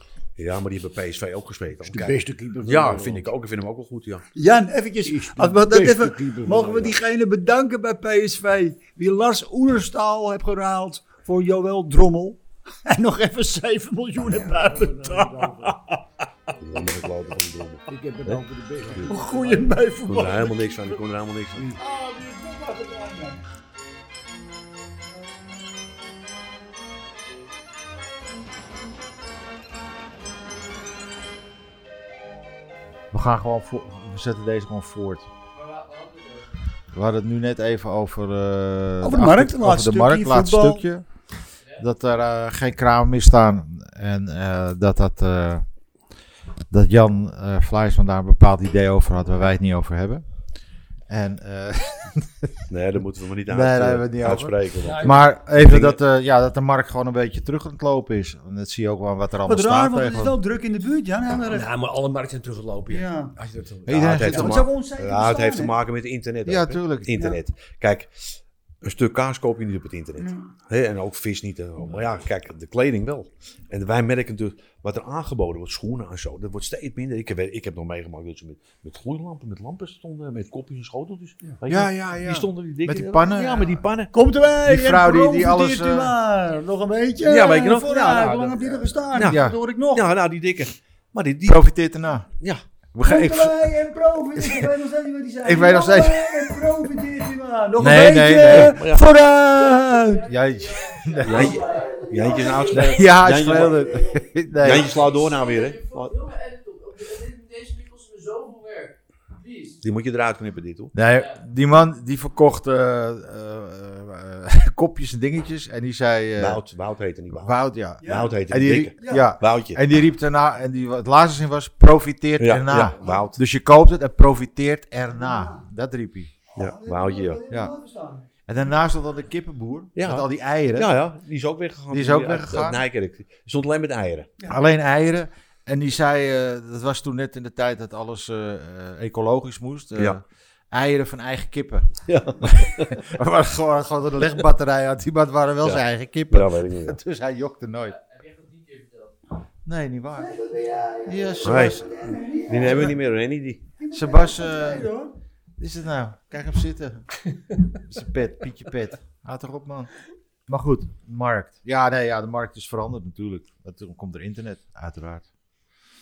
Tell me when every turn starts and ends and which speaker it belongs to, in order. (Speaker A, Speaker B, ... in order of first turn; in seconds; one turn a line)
Speaker A: 0.3-4.2
Speaker B: 1.9-3.3
Speaker C: 4.3-16.0
Speaker B: 5.0-7.0
Speaker B: 14.2-15.8
Speaker A: 16.6-18.4
Speaker B: 17.9-19.9
Speaker C: 19.0-20.9
Speaker A: 20.0-21.8
Speaker C: 21.7-23.4
Speaker D: 33.1-35.3
Speaker E: 35.5-36.7
Speaker D: 36.9-41.1
Speaker C: 39.0-40.8
Speaker D: 41.8-45.6
Speaker D: 46.7-50.2
Speaker D: 51.1-52.5
Speaker A: 52.7-56.0
Speaker D: 53.5-60.4
Speaker C: 54.8-55.2
Speaker C: 59.5-61.7
Speaker F: 61.5-64.2
Speaker C: 62.9-63.3
Speaker D: 63.9-64.7
Speaker A: 63.9-84.1
Speaker C: 64.3-65.7
Speaker D: 66.5-67.2
Speaker D: 81.7-83.9
Speaker C: 84.1-90.0
Speaker D: 84.6-86.1
Speaker A: 87.2-91.6
Speaker D: 89.2-89.6
Speaker D: 91.5-92.3
Speaker D: 92.9-93.7
Speaker C: 93.0-100.3
Speaker D: 94.4-94.7
Speaker D: 95.4-96.7
Speaker D: 97.8-98.8
Speaker A: 98.5-99.0
Speaker E: 99.6-109.8
Speaker D: 100.3-101.6
Speaker A: 101.2-103.9
Speaker C: 101.3-102.8
Speaker D: 102.7-105.0
Speaker A: 104.6-106.1
Speaker A: 109.8-110.9
Speaker D: 110.9-116.6
Speaker A: 116.4-119.8
Speaker D: 117.3-126.3
Speaker C: 118.0-118.4
Speaker C: 119.0-119.3
Speaker A: 122.4-123.4
Speaker C: 125.1-125.6
Speaker C: 126.5-128.3
Speaker A: 126.5-127.4
Speaker D: 127.5-127.7
Speaker D: 128.4-130.9
Speaker A: 129.9-134.3
Speaker D: 131.9-132.8
Speaker D: 134.5-148.0
Speaker A: 142.1-143.0
Speaker A: 145.6-147.0
Speaker E: 147.8-149.2
Speaker D: 149.6-150.3
Speaker C: 150.2-152.9
Speaker D: 151.1-151.9
Speaker A: 151.4-151.8
Speaker A: 152.4-153.6
Speaker C: 153.8-155.1
Speaker D: 153.9-154.9
Speaker D: 155.6-159.9
Speaker D: 160.5-165.3